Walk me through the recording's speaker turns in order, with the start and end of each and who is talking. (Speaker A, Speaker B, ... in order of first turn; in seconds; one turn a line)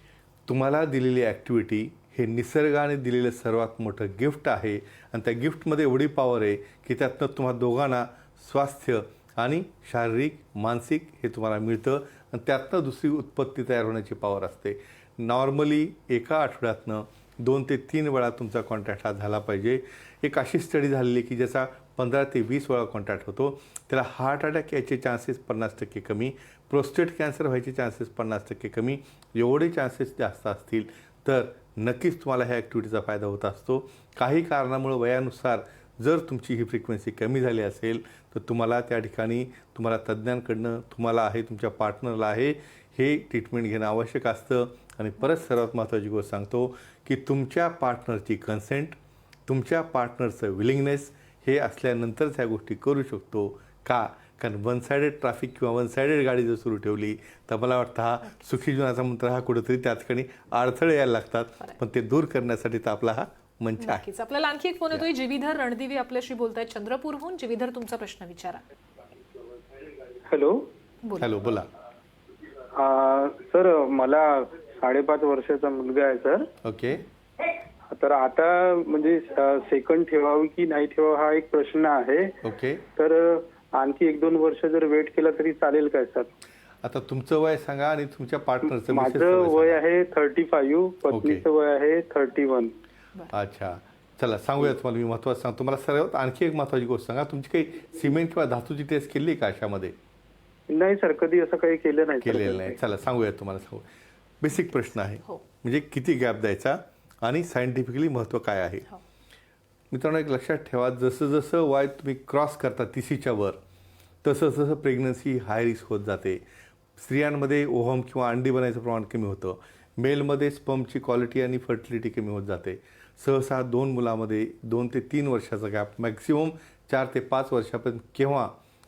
Speaker A: 0.5-64.0
Speaker B: 63.8-68.6
Speaker C: 70.2-70.7
Speaker B: 71.0-71.3
Speaker A: 71.2-71.7
Speaker C: 72.8-76.5
Speaker A: 76.6-77.1
Speaker C: 77.9-82.3
Speaker A: 82.4-82.8
Speaker C: 82.9-86.3
Speaker A: 86.8-89.8
Speaker C: 88.7-92.7
Speaker A: 91.1-91.4
Speaker A: 93.3-99.9
Speaker C: 100.7-102.8
Speaker A: 102.2-103.9
Speaker A: 104.4-108.9
Speaker A: 109.9-113.6
Speaker A: 114.2-116.4
Speaker A: 117.0-128.6